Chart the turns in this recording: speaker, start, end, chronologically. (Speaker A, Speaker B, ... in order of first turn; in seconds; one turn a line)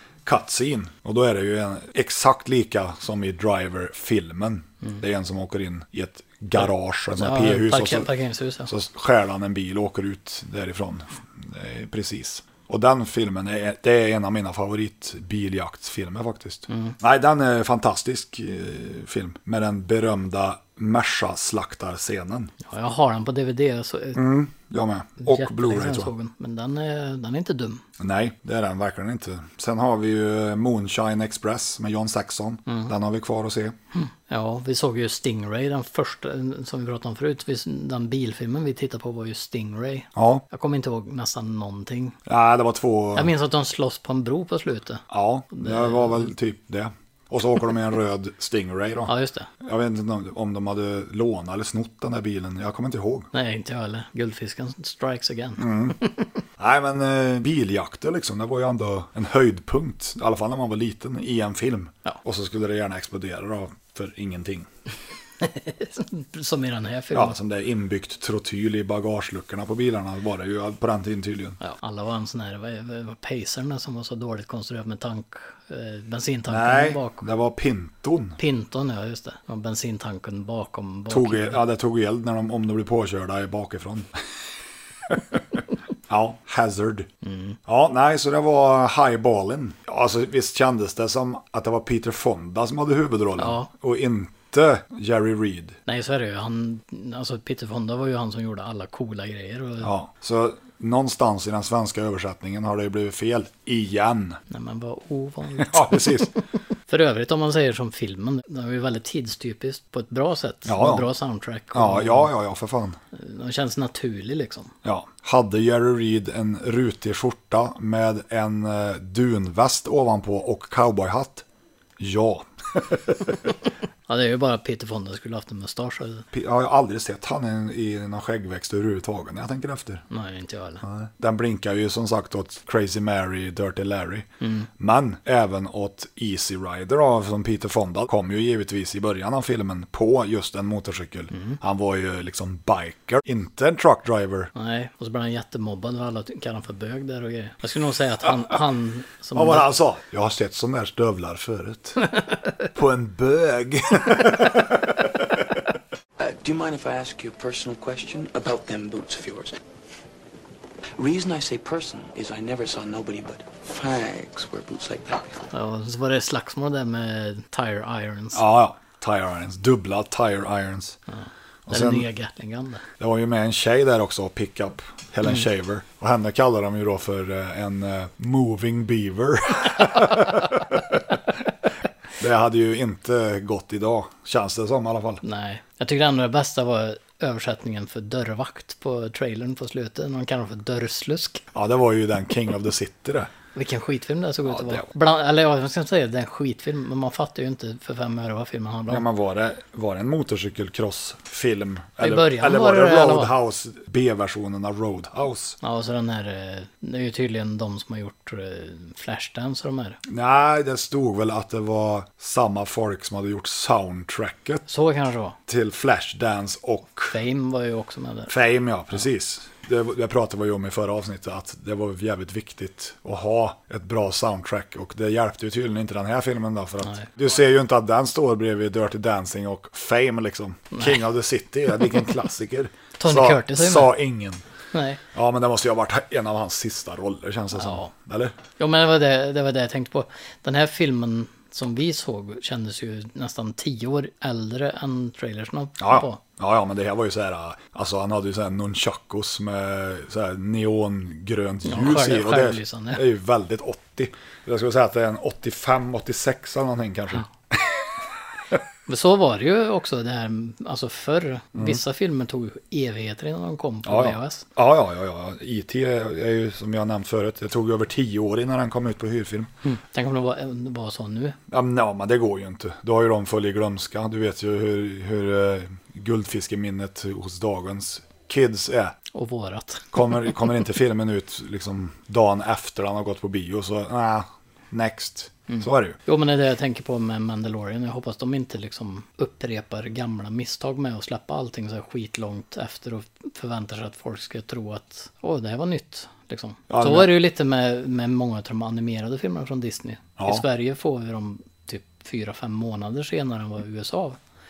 Speaker A: 0.2-8.1
Speaker B: 6.6-8.7
Speaker A: 8.7-22.5
Speaker B: 16.7-16.9
Speaker B: 22.6-24.2
Speaker A: 24.1-26.1
Speaker B: 25.2-27.8
Speaker A: 28.0-33.8
Speaker B: 32.7-32.9
Speaker B: 33.9-42.2
Speaker A: 40.1-40.4
Speaker A: 42.2-43.3
Speaker B: 43.1-46.3
Speaker A: 45.1-53.3
Speaker B: 49.1-49.5
Speaker B: 53.3-56.3
Speaker A: 55.6-56.0
Speaker A: 56.6-64.7
Speaker B: 65.4-67.4
Speaker A: 67.1-71.6
Speaker B: 71.6-77.2
Speaker A: 76.5-78.4
Speaker B: 78.4-81.6
Speaker A: 81.1-84.2
Speaker A: 85.1-87.1
Speaker B: 87.2-87.6
Speaker A: 87.7-95.8
Speaker B: 93.4-93.7
Speaker B: 95.8-99.9
Speaker A: 99.8-104.4
Speaker B: 104.5-106.3
Speaker A: 105.6-106.3
Speaker B: 106.9-112.3
Speaker A: 110.7-111.1
Speaker A: 111.7-113.0
Speaker B: 113.1-114.7
Speaker A: 114.8-121.4
Speaker A: 122.0-123.5
Speaker B: 124.1-126.3
Speaker A: 126.3-130.0
Speaker B: 130.1-130.8
Speaker A: 130.8-134.3
Speaker B: 134.4-134.7
Speaker A: 134.8-144.5
Speaker B: 141.3-141.6
Speaker B: 144.5-149.7
Speaker A: 149.3-152.0
Speaker B: 152.1-152.5
Speaker A: 152.7-155.4
Speaker C: 156.2-159.5
Speaker C: 161.0-165.4
Speaker B: 165.5-168.4
Speaker A: 168.3-171.0
Speaker B: 171.1-172.8
Speaker A: 171.7-172.1
Speaker A: 173.0-181.2
Speaker A: 182.2-185.2
Speaker B: 185.2-191.4
Speaker A: 191.5-193.3
Speaker B: 193.5-199.0
Speaker A: 194.4-194.8
Speaker A: 198.9-205.6
Speaker B: 202.0-203.3
Speaker B: 205.6-210.0
Speaker A: 210.1-214.6
Speaker B: 214.7-215.4
Speaker A: 215.5-217.2
Speaker B: 217.1-218.3
Speaker A: 218.3-234.4
Speaker B: 230.7-231.0
Speaker B: 233.0-233.9
Speaker B: 234.7-235.0
Speaker A: 235.1-238.3
Speaker B: 237.5-237.9
Speaker B: 238.6-246.2
Speaker A: 245.8-257.9
Speaker B: 251.6-253.0
Speaker B: 258.9-264.4
Speaker A: 261.5-261.8
Speaker A: 263.9-269.5
Speaker B: 269.6-271.4
Speaker A: 271.5-279.0
Speaker B: 279.1-280.0
Speaker A: 279.9-286.0
Speaker B: 285.5-304.2
Speaker A: 296.7-297.1
Speaker A: 300.2-300.4